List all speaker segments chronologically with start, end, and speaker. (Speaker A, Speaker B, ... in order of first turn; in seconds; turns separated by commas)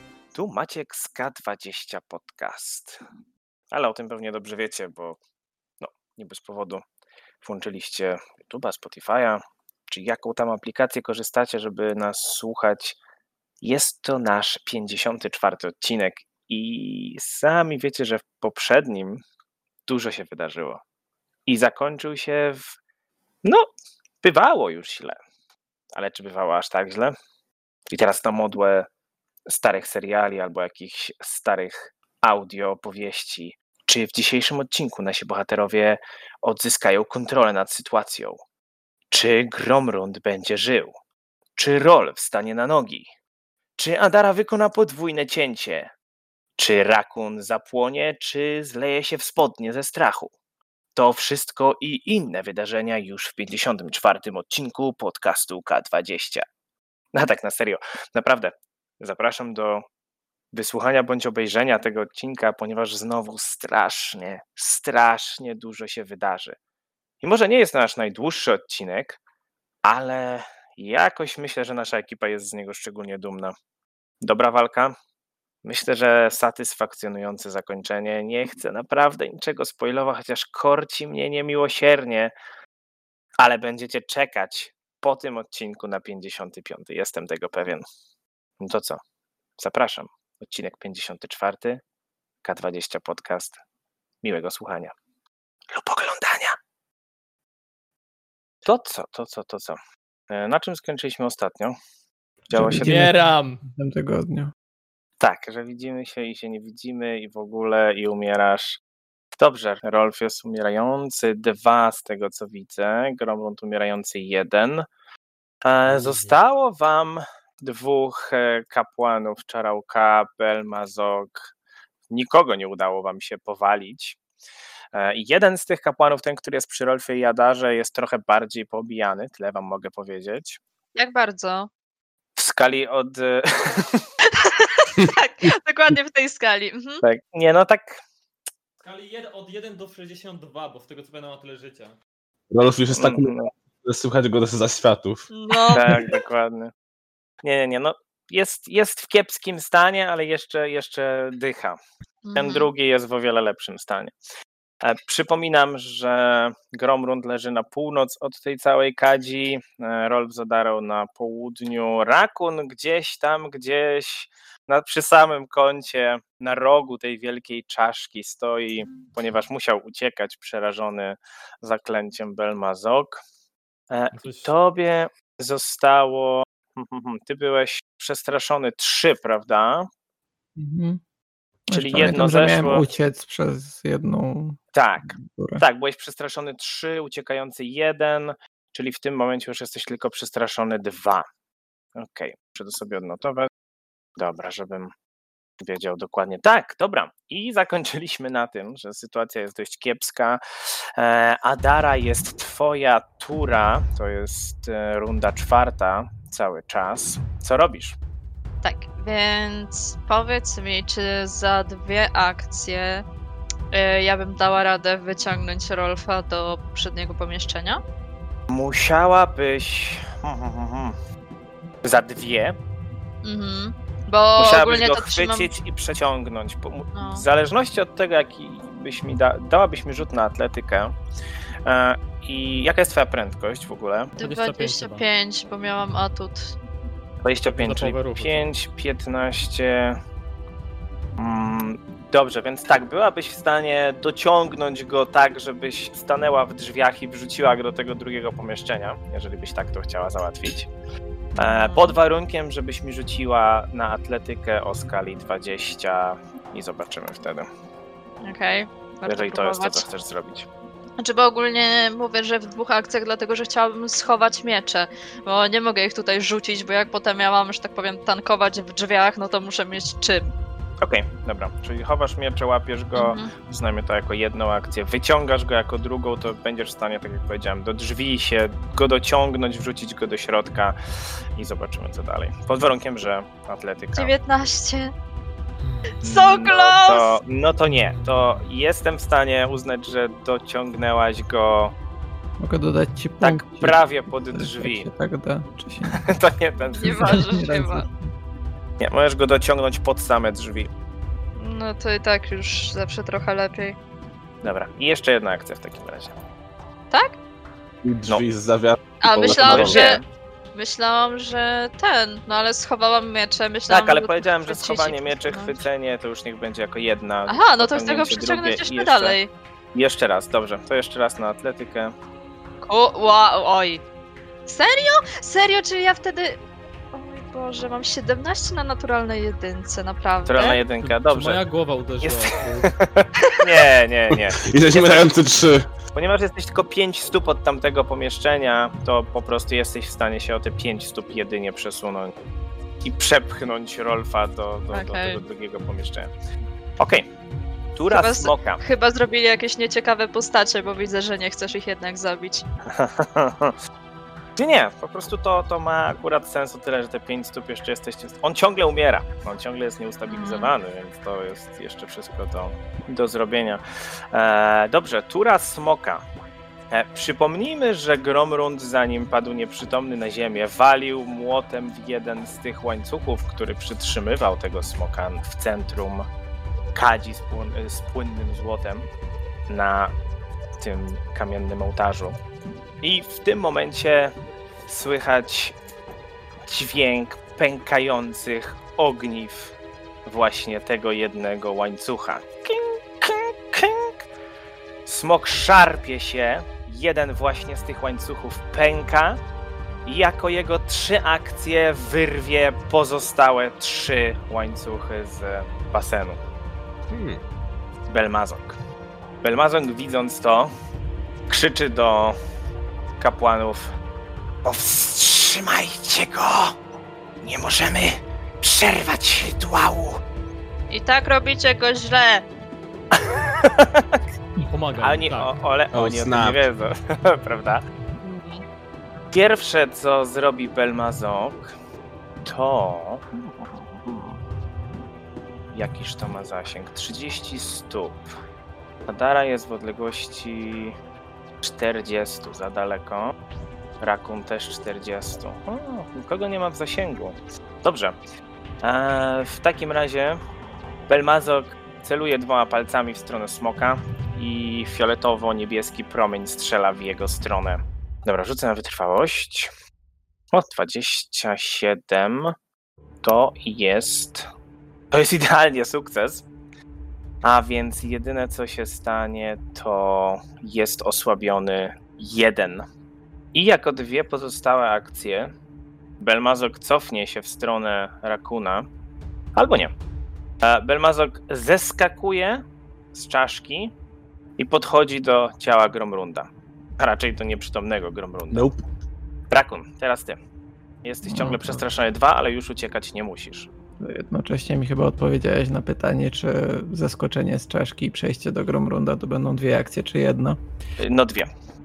Speaker A: 0.3-3.0, Speaker A: 3.7-5.2, Speaker A: 5.8-6.8, Speaker A: 7.4-13.0, Speaker A: 13.6-19.2, Speaker A: 19.9-20.8, Speaker A: 21.5-22.7, Speaker A: 24.2-25.2, Speaker A: 25.9-27.1, Speaker A: 27.9-28.9, Speaker A: 29.5-38.4, Speaker A: 39.1-40.9, Speaker A: 41.5-43.1, Speaker A: 43.8-45.9, Speaker A: 46.6-50.3, Speaker A: 50.9-56.4, Speaker A: 57.1-59.8, Speaker A: 60.5-66.5, Speaker A: 67.2-69.2, Speaker A: 69.8-73.5, Speaker A: 74.2-74.9, Speaker A: 75.6-82.3, Speaker A: 83.4-87.8, Speaker A: 88.6-89.0, Speaker A: 89.6-91.8, Speaker A: 92.4-93.6, Speaker A: 94.2-94.9, Speaker A: 95.7-96.6, Speaker A: 98.6-99.8, Speaker A: 100.3-101.8, Speaker B: 102.5-104.5, Speaker A: 102.5-103.0, Speaker C: 102.6-103.6, Speaker A: 105.2-108.8, Speaker A: 109.3-114.8, Speaker A: 115.6-121.5, Speaker C: 115.8-116.4, Speaker A: 122.1-124.2, Speaker A: 124.9-130.6, Speaker D: 130.9-131.7, Speaker A: 132.4-134.0, Speaker D: 134.3-137.0, Speaker A: 137.0-138.0, Speaker C: 138.8-141.9, Speaker E: 142.5-145.3, Speaker A: 142.9-143.5, Speaker D: 145.3-146.1, Speaker A: 145.7-146.7, Speaker A: 147.4-151.8, Speaker D: 152.2-152.7, Speaker A: 152.3-154.1, Speaker A: 154.8-173.2, Speaker A: 173.9-179.9, Speaker C: 174.1-174.5, Speaker B: 180.6-181.0, Speaker B: 181.7-185.6, Speaker A: 181.7-182.9, Speaker A: 184.7-191.2, Speaker A: 191.9-193.5, Speaker A: 194.2-194.9, Speaker A: 195.6-207.9, Speaker D: 208.6-213.0, Speaker D: 213.7-217.8, Speaker A: 218.5-220.9, Speaker A: 221.8-222.6, Speaker D: 223.2-225.5, Speaker A: 224.4-230.9, Speaker D: 226.9-227.2, Speaker A: 231.6-234.1, Speaker D: 234.2-236.5, Speaker C: 234.2-235.0, Speaker A: 237.2-240.0, Speaker C: 237.4-238.5, Speaker A: 241.2-250.7, Speaker D: 251.4-251.9, Speaker A: 251.4-257.5, Speaker D: 258.2-259.8, Speaker A: 259.1-260.5, Speaker D: 261.0-270.3, Speaker A: 270.8-280.8, Speaker D: 272.9-273.3, Speaker A: 281.4-284.1, Speaker D: 283.9-284.9, Speaker C: 285.6-286.0, Speaker A: 286.0-291.7, Speaker D: 286.0-287.1, Speaker C: 287.9-288.4, Speaker B: 292.4-296.0, Speaker A: 293.2-294.9, Speaker A: 296.0-297.1, Speaker D: 296.8-297.9, Speaker B: 297.0-297.9, Speaker A: 298.8-300.7, Speaker D: 301.4-303.8, Speaker A: 304.4-306.1, Speaker D: 306.9-307.1, Speaker E: 307.8-309.8, Speaker D: 309.0-310.0, Speaker A: 309.4-310.1, Speaker D: 310.5-315.7, Speaker A: 313.7-319.2, Speaker D: 317.3-319.3, Speaker A: 319.7-321.9, Speaker D: 322.6-323.8, Speaker D: 324.5-326.4, Speaker D: 326.9-330.6, Speaker A: 330.2-331.4, Speaker C: 330.4-332.7, Speaker A: 332.0-335.1, Speaker E: 334.1-335.7, Speaker A: 335.9-342.1, Speaker A: 342.8-346.1, Speaker D: 344.7-345.2, Speaker A: 346.8-347.1, Speaker A: 347.8-348.6, Speaker D: 347.9-352.4, Speaker A: 352.7-353.5, Speaker A: 354.4-363.6, Speaker D: 360.1-360.5, Speaker A: 364.1-366.0, Speaker A: 366.7-376.0, Speaker A: 376.7-378.9, Speaker A: 379.5-379.9, Speaker A: 380.6-382.2, Speaker A: 382.8-384.1, Speaker A: 384.7-385.5, Speaker A: 386.5-389.5, Speaker A: 390.0-393.9, Speaker A: 394.9-399.2, Speaker A: 399.8-406.2, Speaker E: 406.9-407.2, Speaker A: 407.9-408.6, Speaker A: 409.2-410.5, Speaker A: 411.3-412.1, Speaker A: 413.0-413.7, Speaker A: 414.4-416.5, Speaker A: 417.2-420.0, Speaker D: 420.7-422.2, Speaker A: 422.9-424.0, Speaker C: 424.4-425.3, Speaker A: 424.8-427.6, Speaker E: 425.7-426.5, Speaker D: 428.0-428.4, Speaker A: 429.1-431.5, Speaker A: 432.2-434.2, Speaker A: 435.5-438.0, Speaker A: 438.9-440.7, Speaker A: 441.4-443.1, Speaker A: 443.8-447.9, Speaker A: 448.6-450.2, Speaker A: 450.9-459.5, Speaker A: 460.3-462.3, Speaker A: 463.0-464.3, Speaker A: 464.9-466.3, Speaker A: 467.2-472.6, Speaker A: 473.3-475.3, Speaker A: 476.0-478.7, Speaker A: 479.4-479.7, Speaker A: 480.4-482.4, Speaker A: 482.9-483.7, Speaker A: 484.4-486.3, Speaker A: 486.8-488.5, Speaker E: 488.3-488.6, Speaker A: 489.3-490.2, Speaker A: 490.8-493.5, Speaker B: 491.1-491.6, Speaker B: 493.8-500.4, Speaker A: 500.8-501.3